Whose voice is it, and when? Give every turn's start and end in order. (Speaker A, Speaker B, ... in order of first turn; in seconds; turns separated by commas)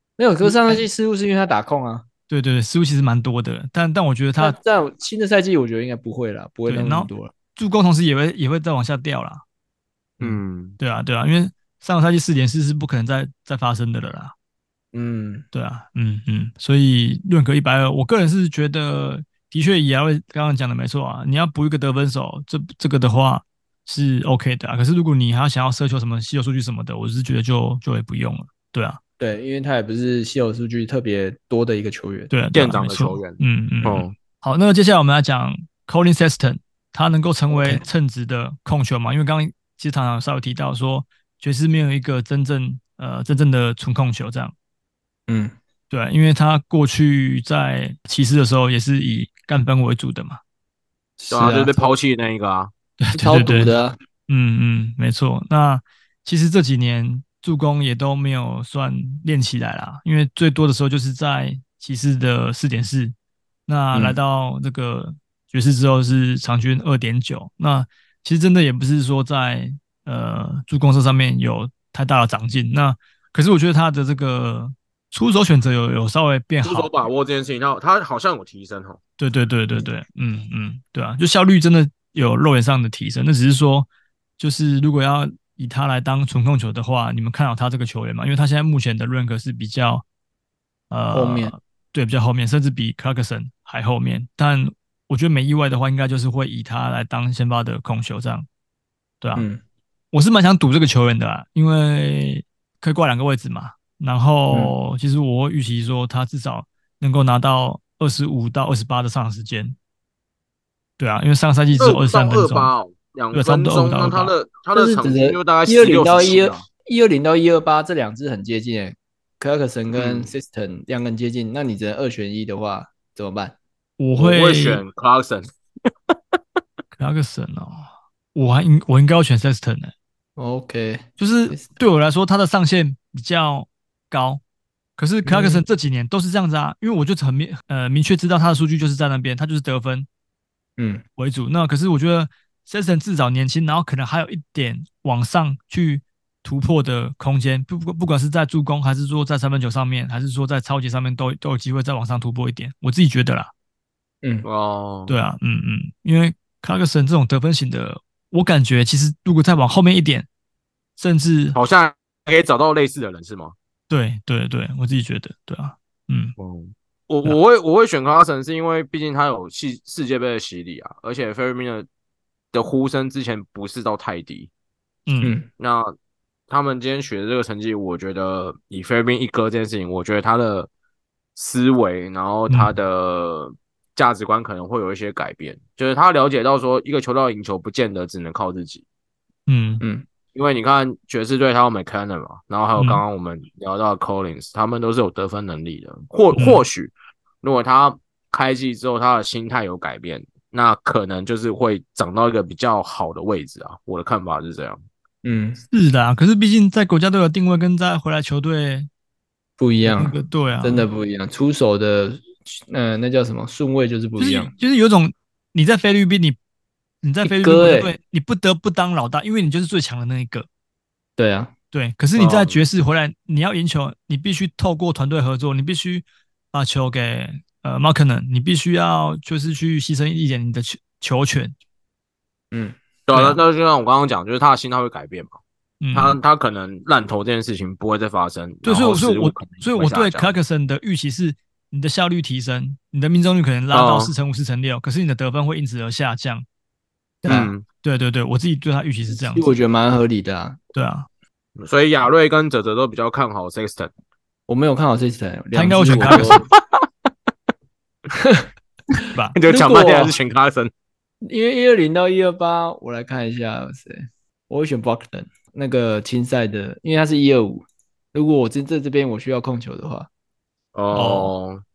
Speaker A: 0.2-2.0, Speaker B: 0.4-0.8, Speaker B: 2.3-4.6, Speaker A: 4.4-7.3, Speaker B: 6.7-9.4, Speaker C: 10.2-10.8, Speaker B: 10.8-14.3, Speaker A: 14.9-15.5, Speaker B: 15.5-29.0, Speaker A: 29.2-32.3, Speaker B: 32.3-44.5, Speaker C: 32.5-34.1, Speaker A: 37.5-37.8, Speaker A: 45.3-45.5, Speaker B: 45.9-50.4, Speaker A: 51.2-51.9, Speaker C: 51.3-52.7, Speaker B: 53.0-53.7, Speaker A: 53.1-54.0, Speaker B: 54.3-63.1, Speaker B: 63.7-76.9, Speaker C: 76.6-79.0, Speaker B: 79.2-83.9, Speaker B: 84.4-90.0, Speaker B: 90.9-98.5, Speaker A: 91.1-91.5, Speaker B: 99.2-99.5, Speaker A: 99.4-99.6, Speaker B: 100.1-109.8, Speaker B: 111.0-112.7, Speaker C: 111.8-116.6, Speaker B: 113.3-114.3, Speaker A: 114.8-123.5, Speaker C: 119.9-120.3, Speaker B: 124.0-124.8, Speaker C: 124.2-125.5, Speaker B: 127.0-129.9, Speaker A: 130.4-131.7, Speaker B: 131.2-134.4, Speaker B: 135.0-140.1, Speaker A: 135.2-135.6, Speaker A: 140.8-141.0, Speaker B: 141.2-153.5, Speaker C: 154.4-155.1, Speaker B: 155.1-160.3, Speaker B: 161.0-161.6, Speaker C: 161.6-163.6, Speaker B: 163.9-166.3, Speaker C: 166.4-171.9, Speaker C: 172.5-174.5, Speaker B: 175.1-175.3, Speaker A: 175.2-175.5, Speaker C: 175.6-175.9, Speaker C: 176.5-180.7, Speaker C: 181.4-188.8, Speaker B: 189.5-189.8, Speaker A: 189.8-190.1, Speaker C: 190.3-204.8, Speaker B: 192.8-193.0, Speaker B: 196.3-196.6, Speaker A: 205.2-205.6, Speaker B: 205.7-208.9, Speaker A: 209.6-214.5, Speaker B: 209.8-210.9, Speaker B: 214.2-216.4, Speaker B: 217.0-220.5, Speaker A: 217.2-217.9, Speaker A: 221.2-221.5, Speaker B: 221.7-231.6, Speaker C: 222.2-222.6, Speaker A: 232.5-232.8, Speaker C: 233.1-235.4, Speaker B: 233.1-233.4, Speaker B: 235.8-236.2, Speaker C: 235.9-240.3, Speaker B: 238.7-246.4, Speaker C: 243.7-244.1, Speaker A: 247.2-247.5, Speaker C: 247.2-247.6, Speaker B: 247.8-249.5, Speaker A: 249.1-250.6, Speaker B: 250.7-251.1, Speaker C: 251.6-253.9, Speaker A: 254.5-256.5, Speaker B: 255.5-256.4, Speaker C: 256.1-256.8, Speaker A: 258.1-260.1, Speaker C: 259.4-260.7, Speaker A: 261.2-270.1, Speaker C: 270.8-271.6, Speaker B: 270.9-271.3